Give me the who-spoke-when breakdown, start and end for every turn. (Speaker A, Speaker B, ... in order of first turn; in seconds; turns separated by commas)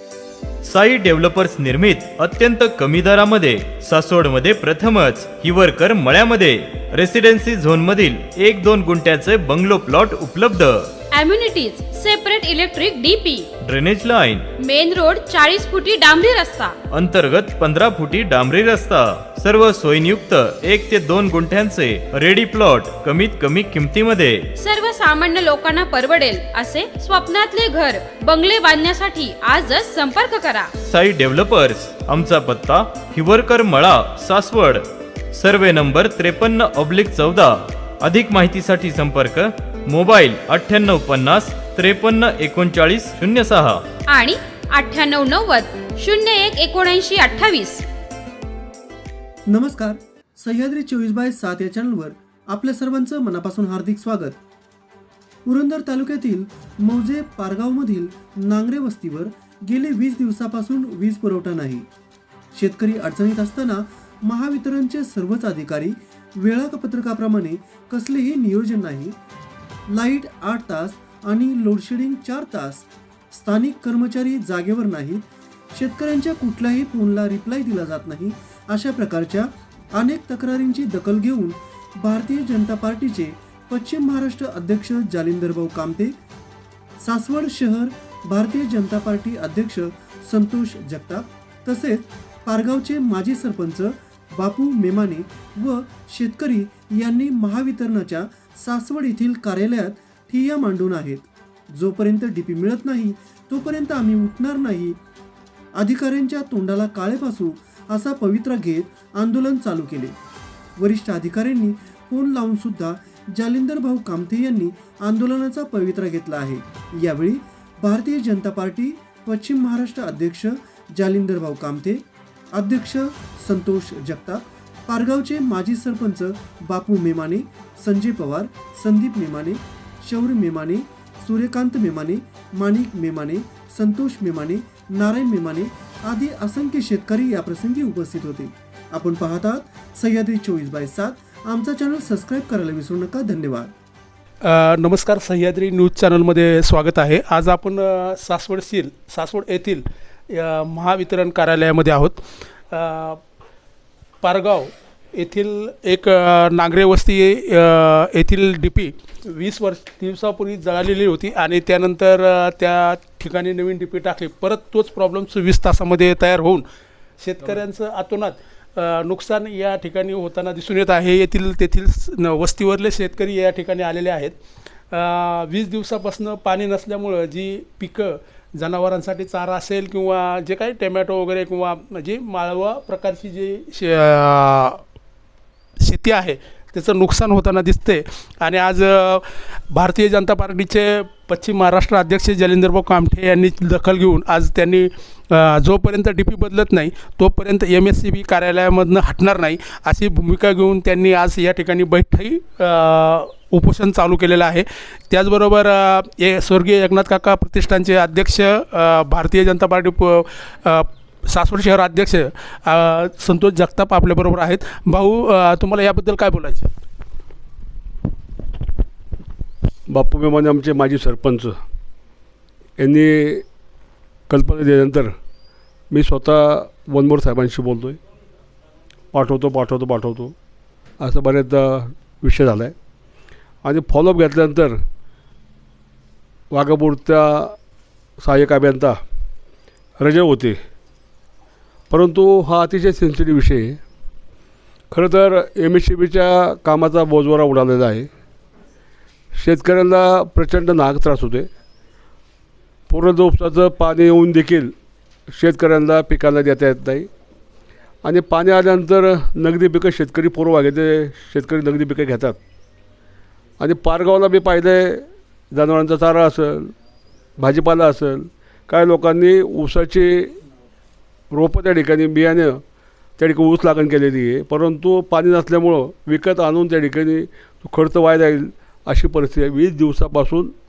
Speaker A: 0.6-10.9, Speaker B: 11.1-13.5, Speaker A: 13.6-14.5, Speaker B: 14.6-16.8, Speaker A: 16.9-24.5, Speaker B: 24.6-30.7, Speaker A: 30.8-43.8, Speaker B: 44.1-47.8, Speaker C: 49.5-54.4, Speaker C: 55.5-61.9, Speaker C: 62.5-69.1, Speaker C: 69.9-86.1, Speaker C: 87.0-105.0, Speaker C: 105.8-110.1, Speaker C: 110.8-143.7, Speaker D: 144.4-153.2, Speaker D: 154.2-166.6, Speaker D: 167.2-174.4, Speaker D: 174.9-184.8, Speaker D: 185.8-216.7, Speaker E: 219.9-221.6, Speaker E: 222.8-223.4, Speaker E: 224.3-225.1, Speaker E: 225.9-228.0, Speaker E: 229.1-230.3, Speaker E: 231.0-232.7, Speaker E: 233.6-234.8, Speaker E: 236.5-237.6, Speaker E: 238.2-239.0, Speaker E: 240.0-240.6, Speaker E: 241.9-243.8, Speaker E: 244.9-248.1, Speaker E: 249.3-251.5, Speaker E: 252.9-254.7, Speaker E: 255.3-257.1, Speaker E: 258.0-262.4, Speaker E: 263.6-266.7, Speaker E: 267.4-270.3, Speaker E: 271.3-272.6, Speaker E: 273.2-280.5